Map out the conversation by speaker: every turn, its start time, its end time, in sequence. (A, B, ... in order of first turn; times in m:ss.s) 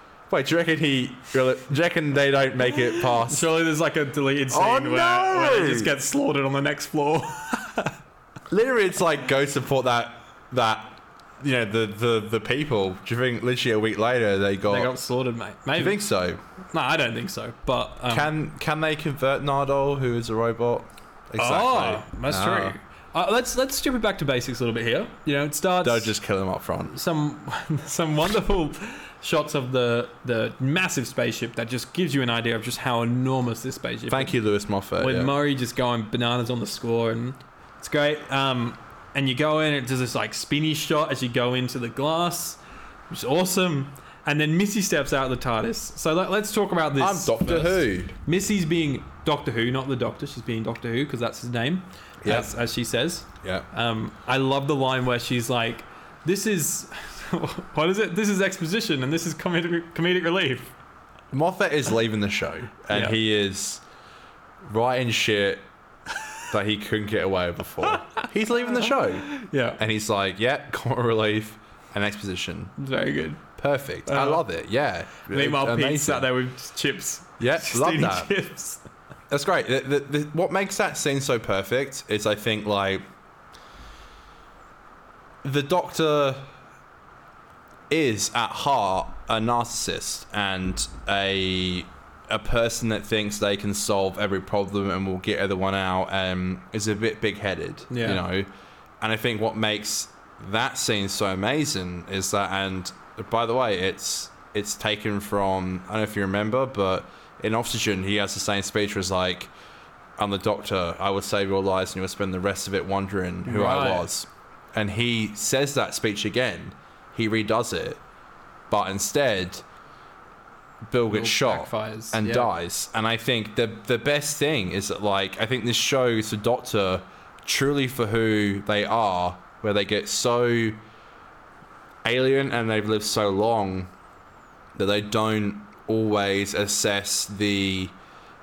0:00.3-0:03.5 A
0:02.8-0:07.9 B
0:04.5-0:05.9 A
0:08.5-0:14.9 A
0:14.7-0:16.0 B
0:15.8-0:16.4 A
0:16.7-0:18.3 B
0:18.1-0:22.8 A
0:21.4-0:26.1 B
0:25.8-0:26.9 A
0:26.9-0:34.4 B
0:34.1-0:35.3 A
0:35.0-0:42.6 B
0:43.1-1:00.7 B
0:47.0-0:48.1 A
0:52.2-0:52.5 A
1:01.3-1:03.8 A
1:04.6-1:05.7 A
1:06.5-1:12.7 A
1:07.8-1:09.8 B
1:12.8-1:13.4 B
1:13.6-1:16.3 A
1:14.0-1:14.4 B
1:15.3-1:18.8 B
1:17.4-1:18.3 A
1:19.3-1:23.0 A
1:25.4-1:26.4 A
1:27.9-1:38.5 A
1:37.9-1:38.2 B
1:39.0-1:49.5 A
1:50.2-1:58.0 A
1:53.4-1:54.1 B
1:58.7-1:59.6 A
2:00.9-2:10.8 A
2:01.1-2:02.5 B
2:12.0-2:13.9 A
2:14.8-2:17.9 A